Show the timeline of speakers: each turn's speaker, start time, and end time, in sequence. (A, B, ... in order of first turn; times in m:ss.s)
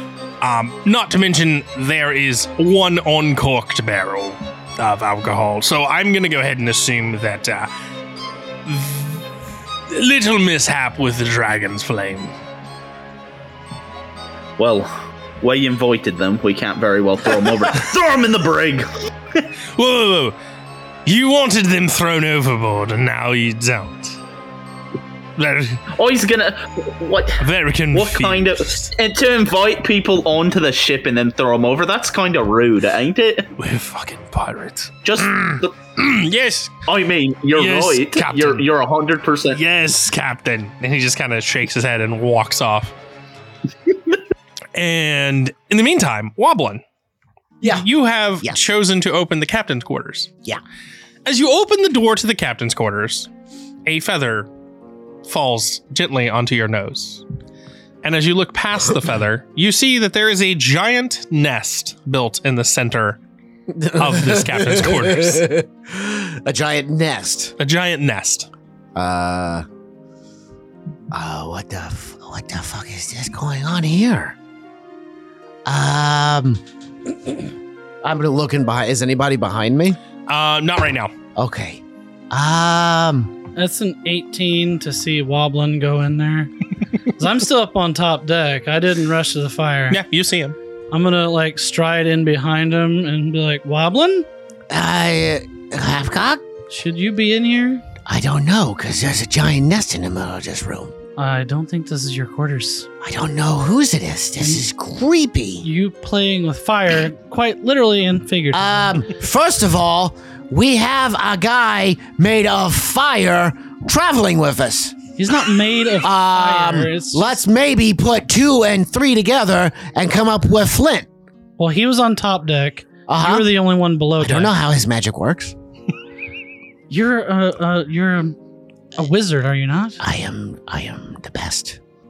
0:00.4-0:07.7 A
0:08.6-0:09.2 A
0:09.9-0:12.3 A
0:14.6-0:19.4 B
0:19.8-0:20.4 A
0:21.0-0:24.2 A
0:25.4-0:25.8 A
0:25.9-0:33.5 B
0:27.4-0:28.9 A
0:33.6-0:36.8 A
0:35.0-0:35.7 B
0:36.8-0:39.6 B
0:37.5-0:38.7 A
0:39.5-0:42.9 A
0:44.7-0:46.8 A
0:47.6-0:47.9 C
0:47.6-0:50.3 A
0:51.2-0:53.3 A
0:53.8-0:54.5 A
0:55.2-0:57.2 A
0:58.0-1:03.2 A
1:03.7-1:07.5 C
1:04.0-1:05.5 A
1:07.6-1:08.5 A
1:08.9-1:09.6 C
1:11.1-1:14.4 C
1:15.6-1:16.6 C
1:18.0-1:20.0 C
1:20.3-1:21.1 A
1:21.4-1:23.3 C
1:23.6-1:26.5 D
1:27.2-1:30.0 D
1:29.9-1:30.6 A
1:30.9-1:34.3 D
1:34.7-1:36.4 C
1:36.7-1:37.8 D
1:38.0-1:40.9 C
1:41.2-1:42.9 D
1:43.0-1:45.6 C
1:45.6-1:48.9 D
1:48.5-1:55.0 C
1:55.2-1:57.3 D
1:56.0-2:01.1 C
2:01.6-2:04.5 D
2:03.1-2:03.5 C
2:04.2-2:05.5 C
2:06.9-2:08.4 D
2:09.0-2:10.0 D
2:10.0-2:11.8 C